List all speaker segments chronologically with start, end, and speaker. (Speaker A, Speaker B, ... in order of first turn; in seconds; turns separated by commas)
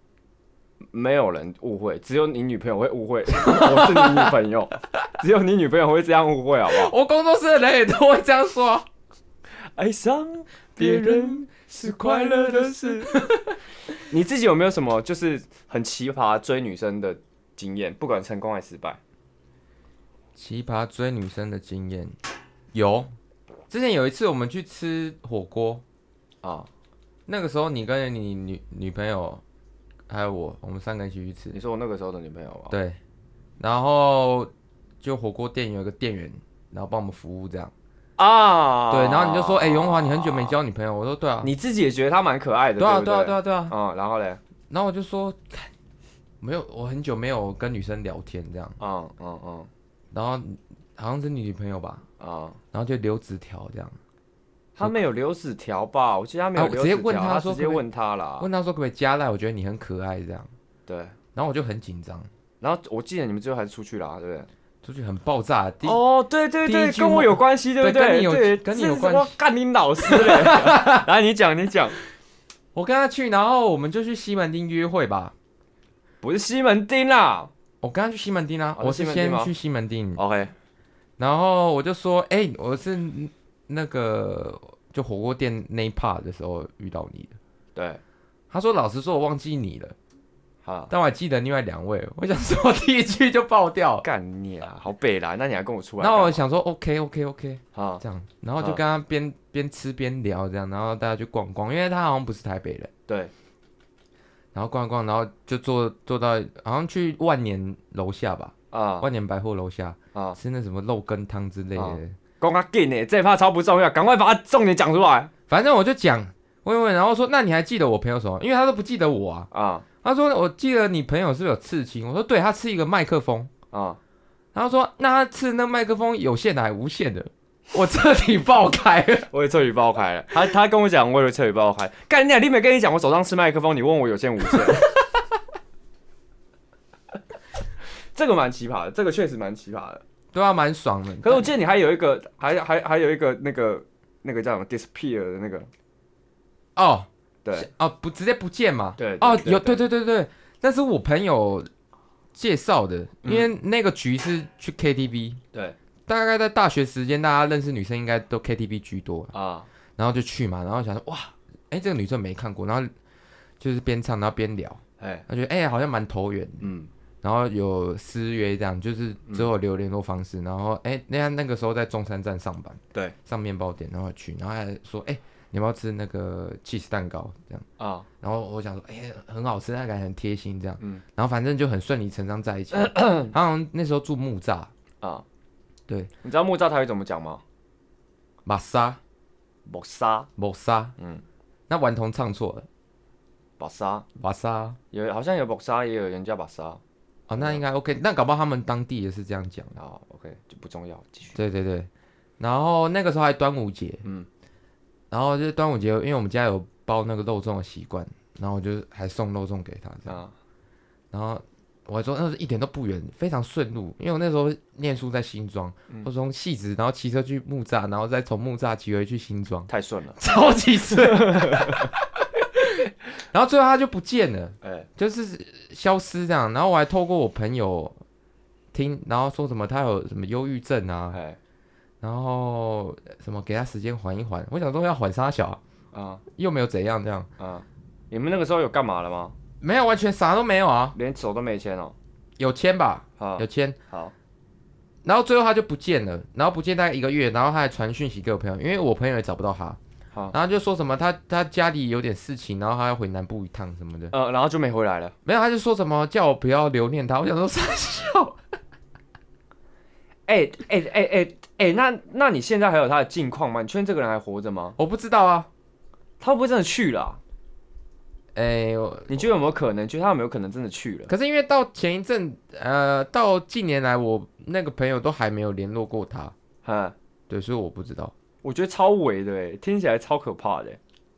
Speaker A: 0.9-6.9, Speaker B: 3.3-4.3, Speaker B: 6.7-8.8, Speaker A: 9.8-13.2, Speaker B: 10.8-13.6, Speaker A: 14.1-19.0, Speaker B: 20.4-22.1, Speaker B: 22.7-23.1, Speaker B: 23.7-25.8, Speaker A: 26.4-26.7, Speaker B: 27.3-29.4, Speaker B: 30.1-31.6, Speaker A: 31.5-32.8, Speaker B: 32.7-33.0, Speaker B: 33.6-34.5, Speaker B: 35.0-37.7, Speaker A: 38.2-40.6, Speaker B: 38.9-41.5, Speaker A: 41.4-44.4, Speaker B: 42.8-43.7, Speaker B: 44.7-45.7, Speaker B: 46.4-48.8, Speaker A: 48.8-49.7, Speaker B: 50.1-52.0, Speaker A: 52.2-52.6, Speaker B: 52.7-54.0, Speaker A: 54.8-58.5, Speaker B: 56.5-57.8, Speaker B: 58.4-60.5, Speaker A: 60.9-61.1, Speaker B: 61.3-62.3, Speaker A: 62.6-64.5, Speaker B: 64.8-66.0, Speaker A: 65.8-72.0, Speaker B: 66.6-69.3, Speaker B: 70.0-71.0, Speaker B: 72.7-75.3, Speaker A: 76.2-77.5, Speaker B: 77.8-80.2, Speaker A: 78.8-79.5, Speaker A: 80.2-80.5, Speaker B: 81.2-87.4, Speaker A: 87.7-88.0, Speaker B: 88.5-89.9, Speaker A: 90.6-90.9, Speaker B: 90.9-94.0, Speaker A: 94.0-96.4, Speaker B: 96.0-102.9, Speaker A: 97.7-98.0, Speaker B: 104.5-112.2, Speaker A: 108.7-109.1, Speaker A: 111.8-115.3, Speaker B: 115.5-119.5, Speaker A: 119.5-119.8, Speaker B: 120.0-123.5, Speaker A: 123.7-124.0, Speaker B: 124.5-129.3, Speaker A: 129.3-134.9, Speaker A: 138.1-140.0, Speaker B: 140.3-141.5, Speaker A: 141.2-145.7, Speaker B: 146.8-151.7, Speaker A: 149.0-149.8, Speaker B: 152.3-155.4, Speaker A: 153.2-153.5, Speaker B: 156.1-159.3, Speaker A: 159.3-159.7, Speaker B: 160.0-162.9, Speaker B: 163.6-166.7, Speaker A: 165.0-165.2, Speaker A: 166.6-166.9, Speaker B: 167.2-177.6, Speaker A: 177.8-178.1, Speaker B: 178.2-184.7, Speaker A: 182.7-183.3, Speaker A: 186.2-187.4, Speaker B: 188.4-189.0, Speaker A: 189.7-190.3, Speaker B: 190.4-190.9, Speaker A: 191.0-191.2, Speaker B: 191.7-192.7, Speaker A: 193.6-194.1, Speaker B: 194.2-194.8, Speaker A: 194.9-196.8, Speaker B: 197.3-199.7, Speaker A: 197.3-197.6, Speaker A: 199.8-201.4, Speaker B: 201.3-204.0, Speaker B: 205.1-210.2, Speaker A: 210.1-210.3, Speaker B: 211.1-228.0, Speaker A: 219.7-220.2, Speaker A: 220.9-221.9, Speaker A: 224.6-224.9, Speaker B: 228.7-231.2, Speaker A: 231.1-231.4, Speaker B: 232.0-235.6, Speaker A: 235.9-236.2, Speaker B: 236.3-237.3, Speaker A: 237.4-239.3, Speaker B: 239.6-240.9, Speaker A: 240.9-241.9, Speaker B: 242.4-243.8, Speaker A: 243.2-244.1, Speaker B: 245.0-249.8, Speaker B: 250.3-254.1, Speaker A: 254.1-255.1, Speaker B: 255.2-258.4, Speaker A: 260.3-264.8, Speaker B: 264.8-265.5, Speaker A: 266.2-267.2, Speaker B: 268.3-269.3, Speaker A: 269.1-271.1, Speaker B: 271.1-276.3, Speaker A: 276.6-276.9, Speaker B: 277.3-278.1, Speaker A: 278.4-280.8